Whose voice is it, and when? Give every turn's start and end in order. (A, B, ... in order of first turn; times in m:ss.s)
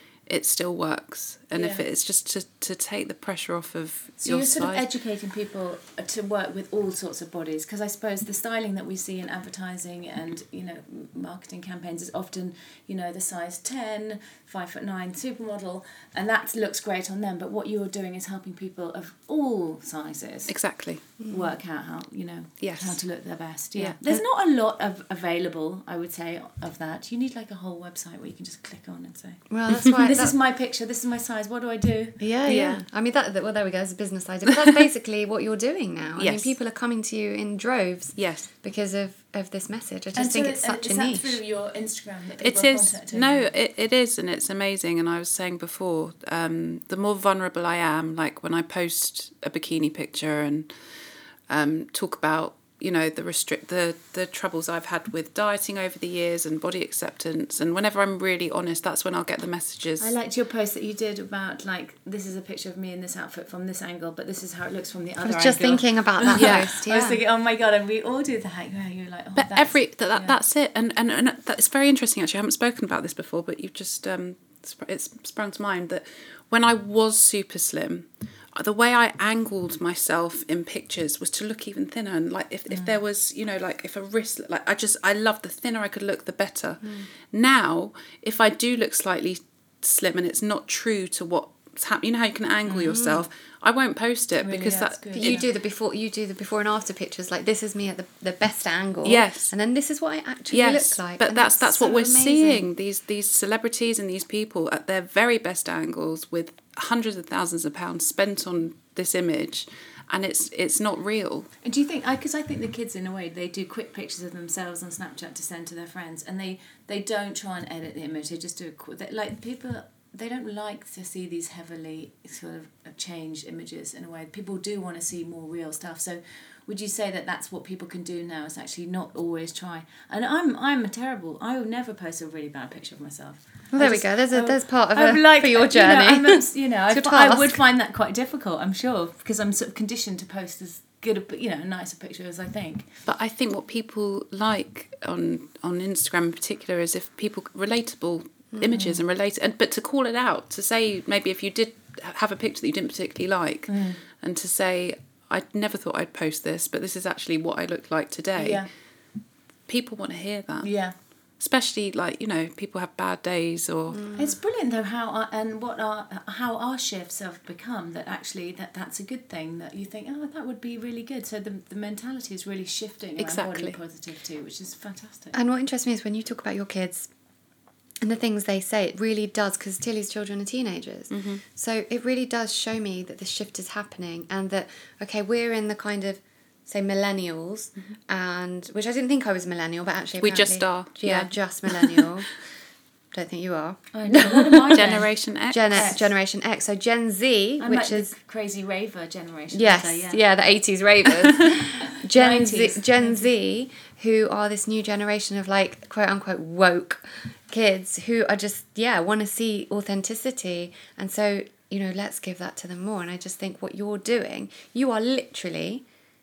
0:00.3-0:04.8 A
0:01.5-0:01.8 B
0:04.2-0:20.5 B
0:20.5-0:21.0 A
0:21.2-0:21.5 C
0:21.3-0:32.2 B
0:22.6-0:23.0 A
0:29.5-0:30.3 C
0:32.2-0:41.4 C
0:32.4-0:32.8 A
0:36.2-0:36.5 A
0:38.2-0:38.5 A
0:40.1-0:43.5 B
0:42.4-0:50.7 A
0:51.5-1:00.1 A
1:00.0-1:10.3 B
1:05.2-1:07.2 C
1:06.4-1:06.6 A
1:09.4-1:35.4 A
1:22.7-1:23.0 B
1:32.6-1:33.1 B
1:32.9-1:33.2 C
1:34.4-1:35.4 B
1:35.2-1:42.7 C
1:39.0-1:39.5 A
1:40.5-1:51.5 A
1:51.6-2:22.9 B
2:13.7-2:17.6 C
2:23.0-2:38.6 A
2:28.7-2:29.0 B
2:33.7-2:34.0 B
2:38.4-2:38.7 B
2:39.7-2:40.7 A
2:40.6-2:40.9 B
2:41.4-2:44.1 A
2:43.9-2:44.3 C
2:44.1-2:55.4 B
2:53.2-2:53.8 A
2:55.3-2:57.1 C
2:58.0-3:12.4 C
3:01.1-3:01.4 A
3:10.2-3:12.1 A
3:13.1-3:14.9 C
3:13.9-3:15.1 B
3:14.7-3:15.9 A
3:15.5-3:18.1 C
3:15.7-3:16.1 B
3:17.6-3:20.2 B
3:19.5-3:35.8 C
3:21.9-3:23.3 B